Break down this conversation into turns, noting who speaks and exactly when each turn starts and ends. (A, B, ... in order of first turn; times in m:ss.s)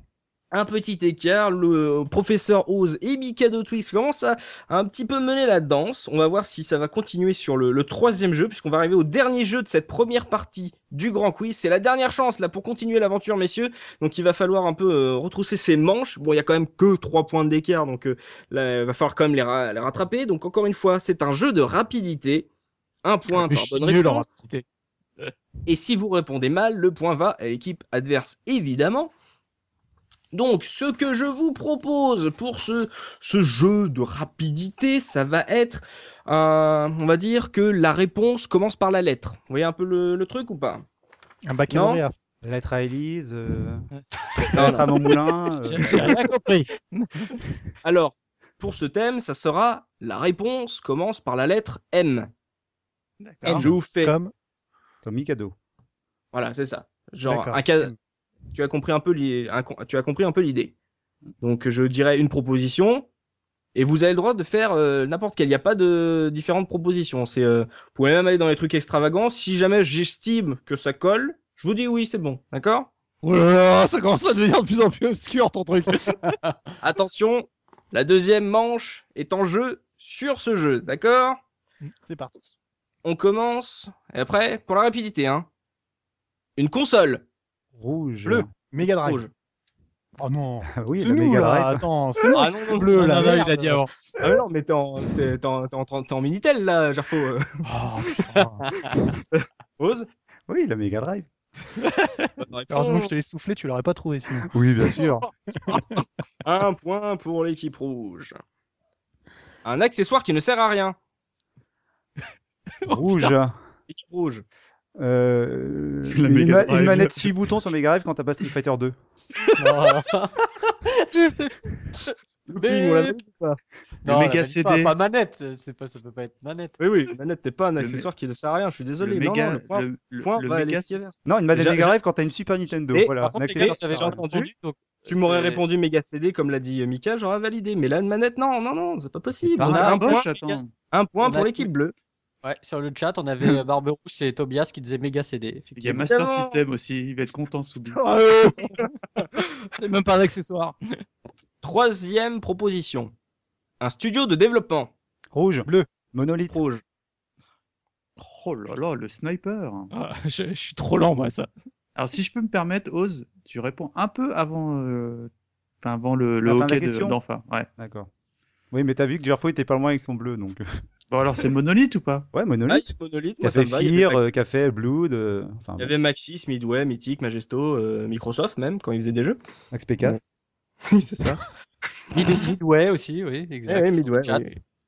0:00.5-0:22.5 A
0:23.0-0:24.3 A
0:23.3-0:24.6 B
0:25.6-0:29.1 A
0:30.3-0:40.8 A
0:41.4-0:42.1 C
0:41.7-0:42.0 A
0:42.4-0:43.8 D
0:44.5-0:44.9 A
0:44.5-0:46.2 D
0:45.6-0:47.3 B
0:45.9-0:46.6 C
0:47.8-0:52.3 A
0:53.2-0:53.6 E
0:53.4-0:54.3 C
0:53.5-0:54.1 A
0:55.0-0:55.5 D
0:56.3-0:57.9 A
0:57.3-0:57.9 C
0:58.5-1:00.7 A
1:01.4-1:03.1 A
1:03.7-1:12.9 A
1:13.2-1:16.3 B
1:16.8-1:21.4 A
1:22.0-1:22.3 C
1:23.0-1:25.5 A
1:26.6-1:27.2 A
1:27.8-1:28.5 D
1:28.2-1:29.3 C
1:28.8-1:29.3 A
1:30.2-1:33.8 C
1:30.7-1:31.8 D
1:32.3-1:32.9 A
1:32.9-1:33.9 B
1:34.2-1:37.6 A
1:37.6-1:38.8 C
1:39.3-1:40.1 A
1:40.5-1:41.3 D
1:41.8-1:42.3 B
1:42.4-1:43.1 A
1:42.7-1:44.5 C
1:44.5-1:45.2 D
1:45.5-1:46.0 C
1:46.4-1:48.4 A
1:49.6-1:51.0 A
1:52.8-1:53.6 D
1:53.9-1:54.4 A
1:55.0-1:58.9 D
1:56.1-1:57.3 E
1:59.6-2:01.5 F
2:02.5-2:03.6 A
2:02.6-2:03.1 F
2:04.0-2:06.8 F
2:04.0-2:04.9 E
2:06.8-2:12.0 A
2:07.8-2:08.1 E
2:09.0-2:11.0 E
2:11.2-2:14.2 D
2:12.9-2:14.5 A
2:13.2-2:15.6 F
2:15.0-2:21.9 A
2:19.6-2:20.7 E
2:19.6-2:20.2 F
2:21.2-2:21.7 F
2:22.4-2:26.1 F
2:25.8-2:28.0 E
2:26.0-2:26.6 A
2:27.9-2:28.9 B
2:29.8-2:30.8 B
2:31.6-2:33.1 A
2:33.8-2:34.9 A
2:35.3-2:36.6 D
2:36.5-2:36.8 A
2:38.2-2:39.9 E
2:39.9-2:41.5 B
2:42.0-2:45.3 E
2:45.8-2:47.7 E
2:46.4-2:47.2 D
2:47.8-2:48.1 D
2:48.7-2:50.6 D
2:51.1-2:52.3 E
2:52.3-2:52.9 D
2:52.7-2:54.4 A
2:53.4-2:55.9 D
2:55.8-2:59.4 A
2:59.7-3:00.2 D
3:00.8-3:01.4 A
3:02.1-3:04.5 F
3:03.7-3:04.6 A